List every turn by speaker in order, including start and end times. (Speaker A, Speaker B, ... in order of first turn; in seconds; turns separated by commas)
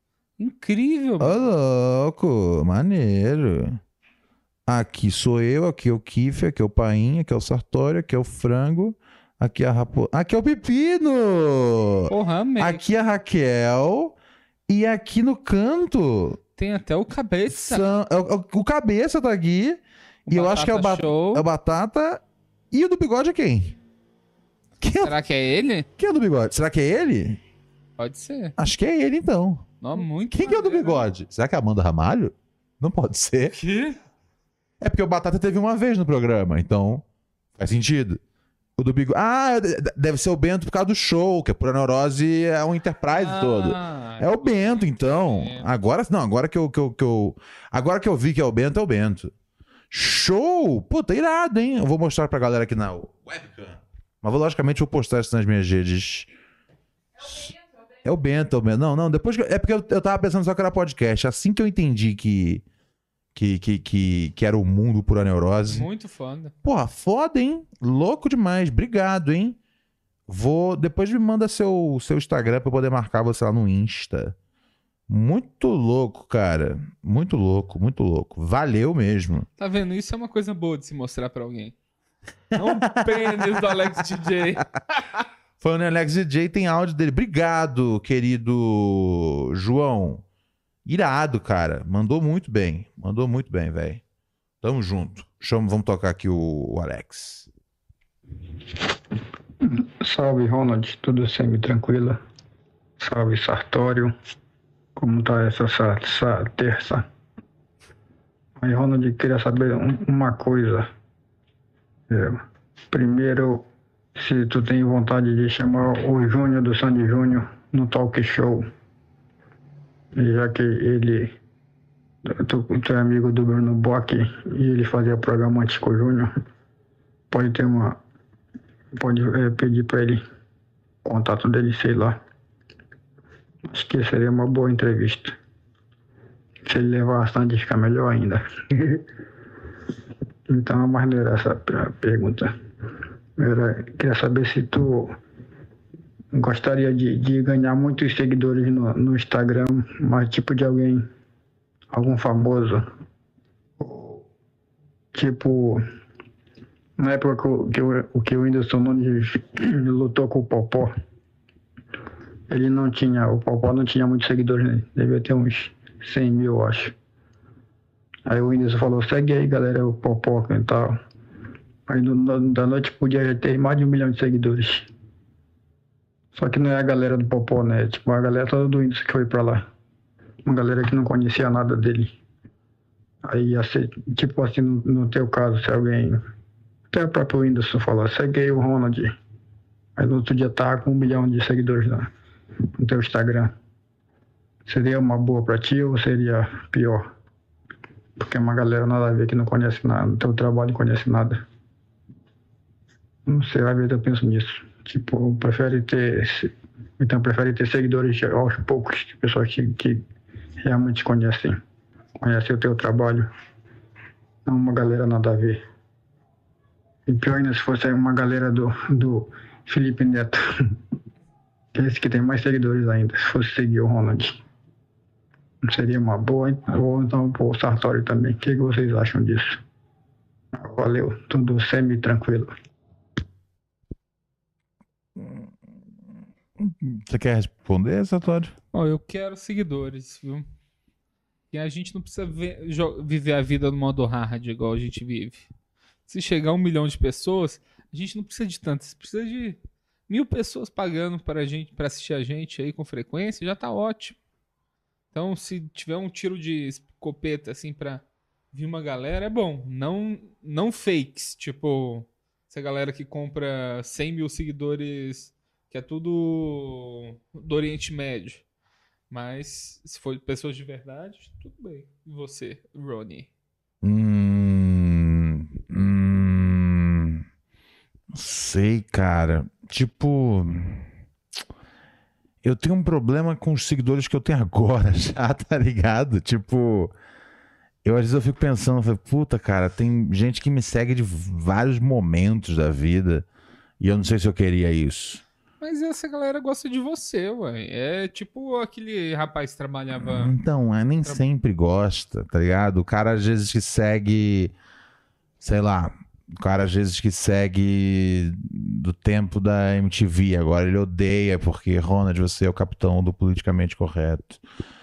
Speaker A: 0.4-1.4, Speaker B: 1.2-3.8, Speaker B: 4.7-14.2, Speaker A: 12.1-12.8, Speaker B: 14.7-16.4, Speaker A: 16.6-17.9, Speaker B: 17.5-23.8, Speaker A: 20.3-21.4, Speaker B: 24.8-25.1, Speaker A: 25.0-25.9, Speaker B: 26.0-27.4, Speaker A: 28.0-28.6, Speaker B: 28.6-33.6, Speaker A: 29.8-31.1, Speaker A: 33.5-34.0, Speaker B: 34.8-37.0, Speaker B: 37.6-38.2, Speaker B: 38.8-49.3, Speaker A: 43.1-45.7, Speaker B: 49.9-56.3, Speaker B: 57.2-62.6, Speaker B: 63.3-65.9, Speaker A: 65.7-66.5, Speaker B: 66.6-69.6, Speaker B: 70.3-74.3, Speaker B: 75.1-79.5, Speaker A: 79.6-81.7, Speaker B: 82.5-83.8, Speaker A: 82.5-84.6, Speaker B: 85.6-90.2, Speaker B: 90.8-94.0, Speaker B: 94.6-97.5, Speaker C: 99.6-102.2, Speaker C: 103.0-104.1, Speaker C: 105.0-107.0, Speaker C: 108.6-110.9, Speaker C: 112.1-113.6, Speaker C: 114.2-118.6, Speaker C: 120.2-121.3, Speaker C: 122.4-126.3, Speaker C: 127.3-128.0, Speaker C: 129.0-130.2, Speaker C: 131.0-132.2, Speaker C: 133.7-135.3, Speaker C: 136.7-139.0, Speaker C: 140.5-142.5, Speaker C: 143.4-145.1, Speaker C: 146.3-151.1, Speaker C: 151.9-152.8, Speaker C: 153.8-154.2, Speaker C: 155.1-155.8, Speaker C: 157.0-160.9, Speaker C: 162.5-166.9, Speaker C: 168.3-171.0, Speaker C: 171.9-174.9, Speaker C: 176.3-179.6, Speaker C: 180.4-182.1, Speaker C: 183.2-186.2, Speaker C: 186.9-189.1, Speaker C: 190.0-192.1, Speaker C: 192.8-193.5, Speaker C: 194.7-197.0, Speaker C: 198.2-201.4, Speaker C: 203.3-210.0, Speaker C: 210.6-211.6, Speaker C: 212.2-213.3, Speaker C: 214.4-215.6, Speaker C: 217.1-220.4, Speaker C: 221.7-224.4, Speaker C: 225.7-229.6, Speaker C: 230.6-232.5, Speaker B: 235.2-235.5, Speaker B: 236.6-238.5, Speaker A: 238.7-240.5, Speaker A: 241.5-245.5, Speaker A: 246.1-254.2, Speaker A: 255.1-268.4, Speaker A: 269.1-273.3, Speaker B: 273.8-277.2, Speaker B: 278.1-280.9, Speaker B: 282.4-286.9, Speaker B: 287.8-293.3, Speaker B: 293.8-295.2, Speaker A: 295.6-300.3, Speaker B: 299.9-304.5, Speaker B: 305.4-314.4